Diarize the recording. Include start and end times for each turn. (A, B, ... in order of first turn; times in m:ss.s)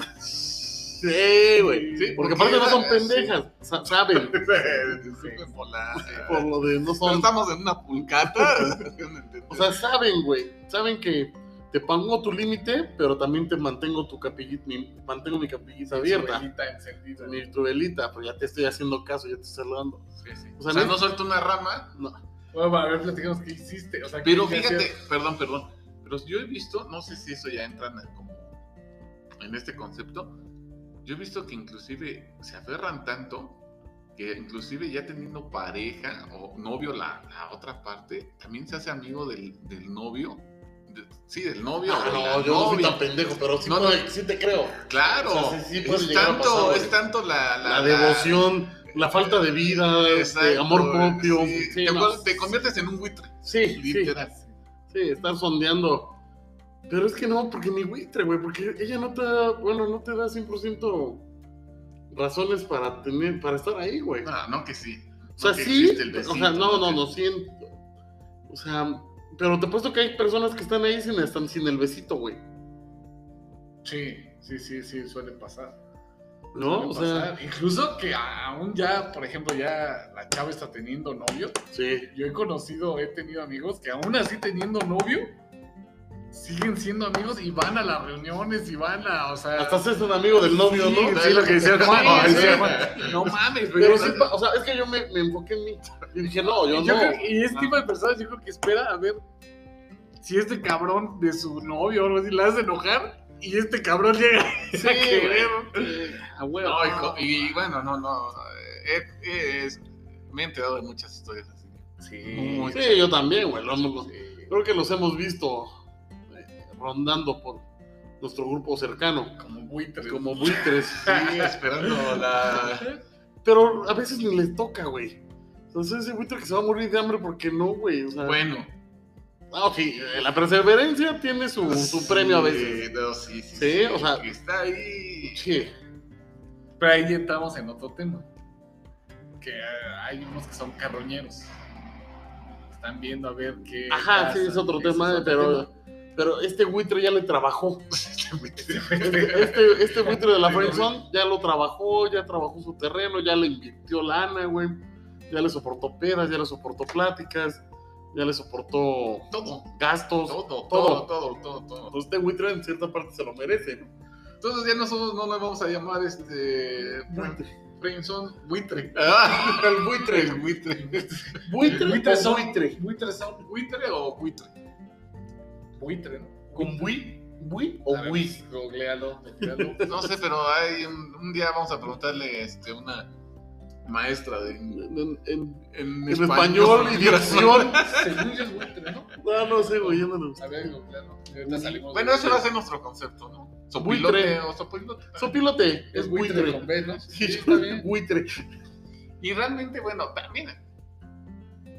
0:00.9-0:04.5 A
0:01.6-0:02.2 B
0:02.0-0:03.4 C
0:04.1-0:09.8 C
0:04.9-0:05.5 B
0:06.0-0:07.3 A
0:08.3-0:08.8 A
0:09.5-0:16.5 A
0:15.9-0:17.4 B
0:17.2-0:21.1 A
0:20.3-0:21.9 C
0:22.5-0:25.0 B
0:24.2-0:28.6 C
0:29.4-0:30.4 C
0:31.0-0:33.6 C
0:34.2-0:43.0 C
0:41.8-0:47.0 A
0:43.6-0:44.1 C
0:44.9-0:54.3 C
0:47.6-0:52.5 A
0:53.4-0:54.2 A
0:54.1-0:54.5 B
0:54.9-0:56.2 A
0:56.9-1:01.3 A
1:02.1-1:04.3 A
1:04.2-1:07.0 C
1:05.4-1:07.7 A
1:08.5-1:12.4 A
1:13.8-1:15.8 B
1:16.5-1:25.3 B
1:16.5-1:17.3 A
1:21.7-1:22.1 A
1:26.3-1:29.8 B
1:29.6-1:33.0 A
1:30.4-1:34.3 B
1:31.2-1:33.4 C
1:33.7-1:37.7 A
1:36.7-1:39.2 B
1:40.2-1:47.3 B
1:44.7-1:46.6 A
1:46.6-1:53.1 C
1:52.0-1:52.8 B
1:52.7-1:55.8 A
1:54.0-1:54.5 B
1:56.3-1:57.6 A
1:58.2-1:59.4 A
1:59.4-2:03.0 B
2:00.0-2:01.6 A
2:00.7-2:02.9 C
2:03.4-2:08.4 A
2:08.2-2:08.7 C
2:09.5-2:12.9 A
2:11.6-2:15.5 C
2:13.5-2:14.3 A
2:15.2-2:15.7 A
2:16.8-2:18.3 B
2:19.4-2:21.5 B
2:22.7-2:25.7 B
2:23.9-2:27.9 A
2:28.0-2:29.5 C
2:28.6-2:30.9 B
2:29.0-2:41.1 A
2:39.3-2:39.7 C
2:40.2-2:42.0 C
2:41.9-2:43.9 A
2:44.4-2:51.2 C
2:47.1-2:47.5 A
2:49.3-2:50.5 A
2:50.7-2:53.5 B
2:51.5-2:52.8 A
2:53.4-2:54.5 C
2:55.8-2:56.9 B
2:56.6-2:58.4 A
2:57.9-3:00.0 B
2:59.4-3:00.0 A
2:59.8-3:03.1 C
3:03.8-3:04.8 C
3:04.7-3:07.9 A
3:05.7-3:08.2 C
3:07.0-3:09.2 B
3:09.1-3:10.8 A
3:09.8-3:12.4 B
3:11.5-3:11.8 A
3:11.7-3:15.3 C
3:13.8-3:14.4 A
3:15.2-3:18.3 A
3:15.9-3:17.9 B
3:19.2-3:20.6 C